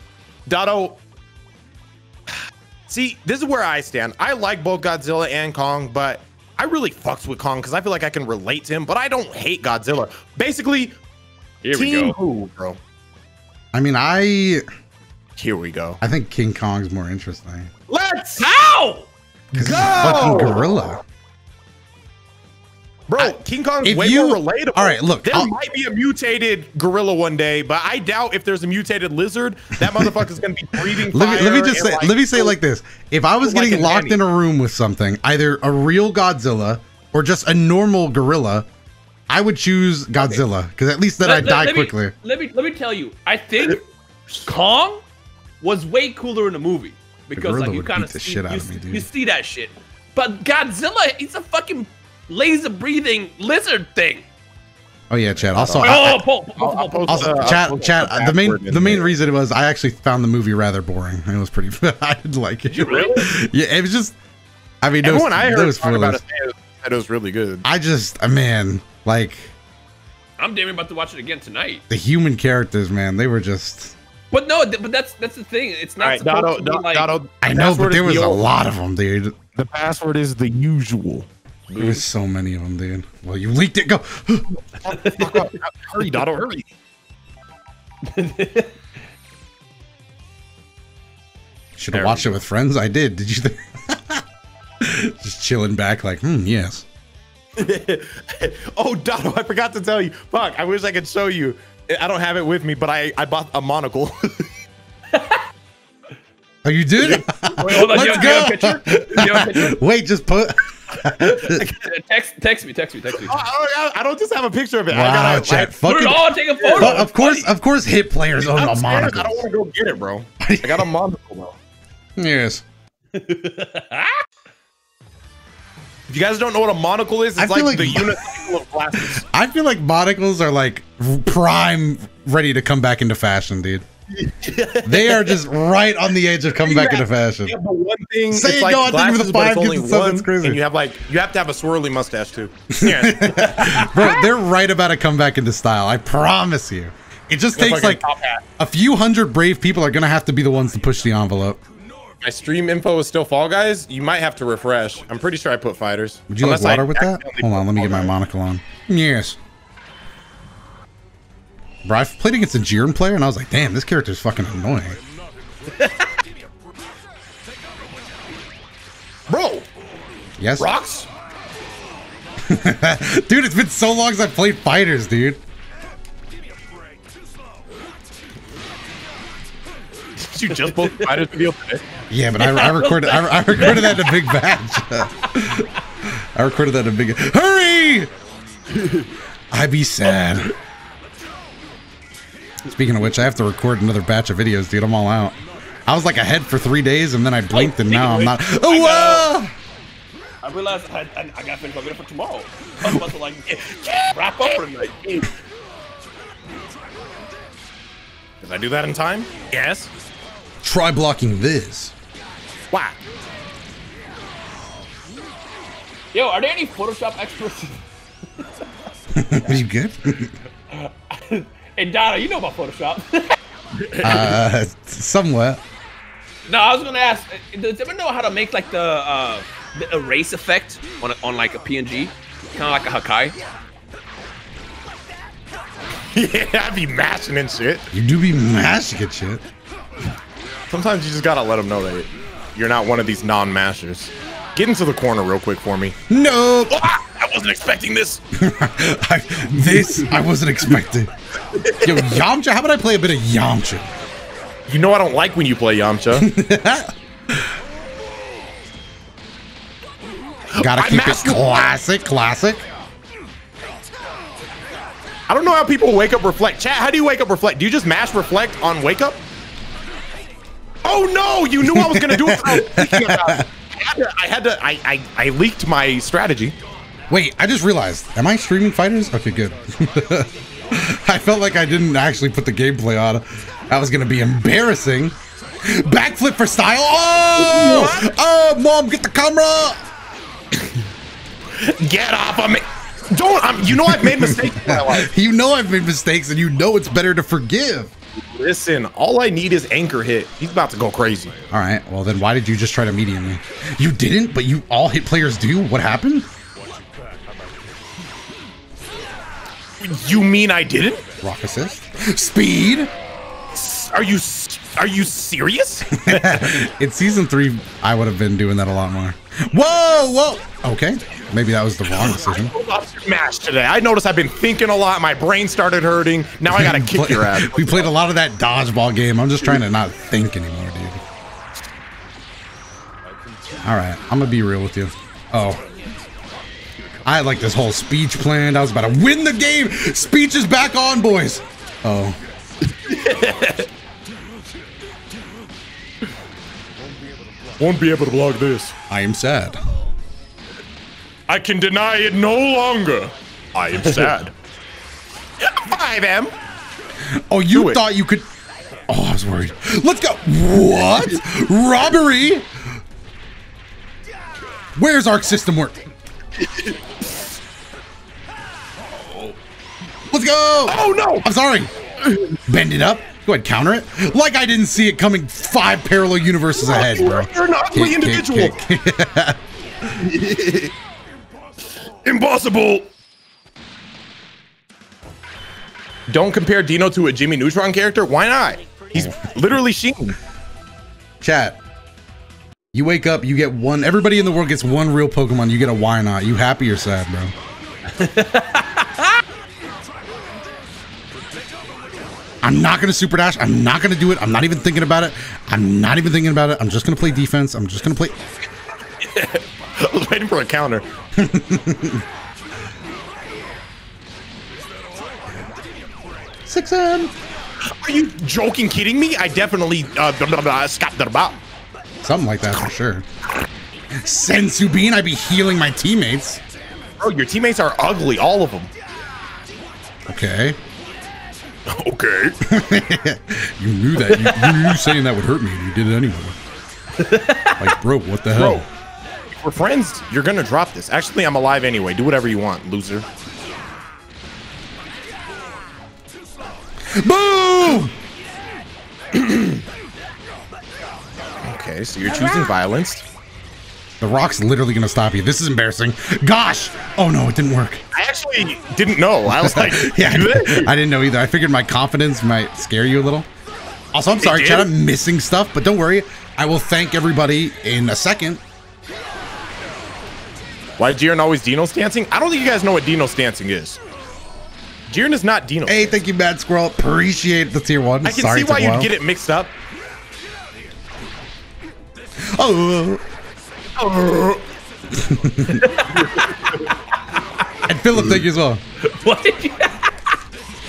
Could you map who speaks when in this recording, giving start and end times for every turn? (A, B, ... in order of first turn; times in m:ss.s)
0:00.5-0:01.0 A
0:02.9-0:11.0 A
0:11.6-0:12.2 B
0:11.7-0:12.8 A
0:13.7-0:14.6 C
0:15.4-0:16.0 A
0:16.0-0:17.7 C
0:17.9-0:18.5 A
0:18.4-0:19.1 B
0:19.5-0:20.6 A
0:19.5-0:21.0 C
0:23.1-0:32.5 A
0:23.2-0:25.5 C
0:30.9-0:38.7 C
0:33.4-0:34.2 A
0:39.3-0:42.1 C
0:41.2-0:43.8 B
0:44.4-0:45.0 B
0:45.6-0:54.3 B
0:47.3-0:49.1 C
0:55.1-0:56.2 C
0:55.4-0:59.1 A
0:55.8-0:57.6 B
0:57.1-1:04.2 C
1:02.7-1:03.3 A
1:02.8-1:03.2 B
1:04.8-1:06.2 C
1:05.0-1:07.7 A
1:07.6-1:09.5 C
1:10.4-1:11.8 B
1:11.9-1:14.0 C
1:14.3-1:17.1 B
1:16.0-1:18.4 A
1:17.4-1:19.4 C
1:19.6-1:21.3 A
1:21.7-1:22.0 B
1:21.8-1:24.6 C
1:24.8-1:26.7 A
1:24.9-1:25.5 B
1:28.1-1:28.7 B
1:31.8-1:34.2 C
1:32.0-1:32.3 A
1:34.8-1:36.8 C
1:37.6-1:44.5 A
1:45.1-1:45.4 B
1:46.6-1:51.7 C
1:47.1-1:49.8 B
1:47.6-1:48.4 A
1:51.2-1:53.4 B
1:53.2-1:55.8 A
1:54.9-1:59.4 C
1:55.8-1:57.5 B
1:56.6-1:57.1 A
1:58.4-2:01.6 A
2:00.4-2:00.9 C
2:02.2-2:02.6 C
2:03.1-2:04.2 B
2:06.1-2:09.2 A
2:07.4-2:08.2 C
2:09.0-2:13.8 C
2:14.2-2:15.4 A
2:14.8-2:17.6 C
2:16.5-2:23.9 A
2:18.3-2:20.6 C
2:22.7-2:28.0 C
2:27.6-2:28.4 A
2:28.6-2:31.6 C
2:32.2-2:38.2 A
2:36.3-2:39.4 C
2:41.8-2:45.0 C
2:49.3-2:49.7 A
2:50.4-2:50.7 C
2:50.6-2:51.1 A
2:52.5-2:55.4 C
3:00.2-3:01.8 A
3:02.1-3:08.1 C
3:02.4-3:04.1 B
3:09.5-3:10.5 C
3:12.7-3:19.5 C
3:17.5-3:19.3 B
3:20.4-3:25.3 B
3:23.5-3:24.6 A
3:28.4-3:29.9 A
3:30.6-3:31.9 C
3:32.7-3:33.0 A
3:36.1-3:37.8 B
3:38.4-3:38.7 B
3:39.1-3:40.3 C
3:40.7-3:43.4 B
3:44.0-3:45.6 C
3:46.5-3:53.4 B
3:56.1-3:57.9 A
3:57.9-3:59.4 C
4:00.7-4:06.0 A
4:06.1-4:06.9 C
4:06.7-4:08.2 A
4:08.3-4:11.1 C
4:09.7-4:10.1 A
4:11.5-4:12.2 A
4:11.8-4:13.9 C
4:14.7-4:16.3 A
4:16.1-4:17.5 C
4:20.6-4:21.7 A
4:20.6-4:22.6 C
4:25.3-4:29.2 A
4:30.8-4:36.6 A
4:31.6-4:33.5 C
4:37.1-4:49.8 C
4:47.4-4:48.1 A
4:51.6-4:55.1 A
4:53.8-4:57.9 C
4:58.3-5:01.4 A
5:01.5-5:06.3 C
5:09.8-5:11.0 A
5:11.2-5:12.9 C
5:13.5-5:16.7 A
5:15.9-5:22.5 C
5:21.9-5:27.9 A
5:26.5-5:31.0 C
5:33.6-5:35.6 C
5:37.0-5:42.2 C
5:42.9-5:43.6 A
5:47.6-5:48.8 A
5:48.9-5:49.6 C
5:51.3-5:54.3 A
5:55.4-5:56.3 A
5:57.1-5:58.3 C
5:57.5-5:57.8 A
5:58.9-6:02.8 C
6:04.8-6:05.9 C
6:06.4-6:06.7 A
6:10.1-6:11.7 C
6:10.7-6:11.3 A
6:12.0-6:12.4 A
6:12.5-6:19.4 C
6:16.6-6:18.6 A
6:19.9-6:20.7 A
6:22.0-6:22.9 A
6:26.1-6:30.2 A
6:31.2-6:31.6 C
6:32.7-6:37.3 C
6:38.0-6:39.2 B
6:42.4-6:48.2 C
6:49.0-6:50.8 A
6:51.2-6:52.0 C
6:56.5-6:57.1 C
6:57.7-7:01.4 A
7:02.0-7:03.0 C
7:04.0-7:06.4 C
7:07.0-7:08.7 A
7:10.1-7:10.6 C
7:11.7-7:12.4 A
7:12.4-7:16.4 C
7:14.1-7:14.6 A
7:17.0-7:17.7 B
7:17.6-7:18.6 C
7:18.3-7:18.7 A
7:19.4-7:23.1 A
7:26.9-7:27.9 C
7:29.2-7:29.5 A
7:31.4-7:33.0 A
7:32.0-7:32.5 C
7:34.0-7:37.8 C
7:37.9-7:40.7 A
7:39.3-7:43.3 C
7:43.9-7:48.4 C
7:44.2-7:44.7 A
7:50.8-7:53.8 A
7:54.9-7:56.0 A
7:55.7-7:58.9 C
7:58.0-7:59.6 A
8:02.2-8:03.0 C
8:03.8-8:04.4 A
8:04.9-8:05.7 C
8:05.6-8:06.0 B
8:07.6-8:08.6 C
8:08.8-8:10.1 B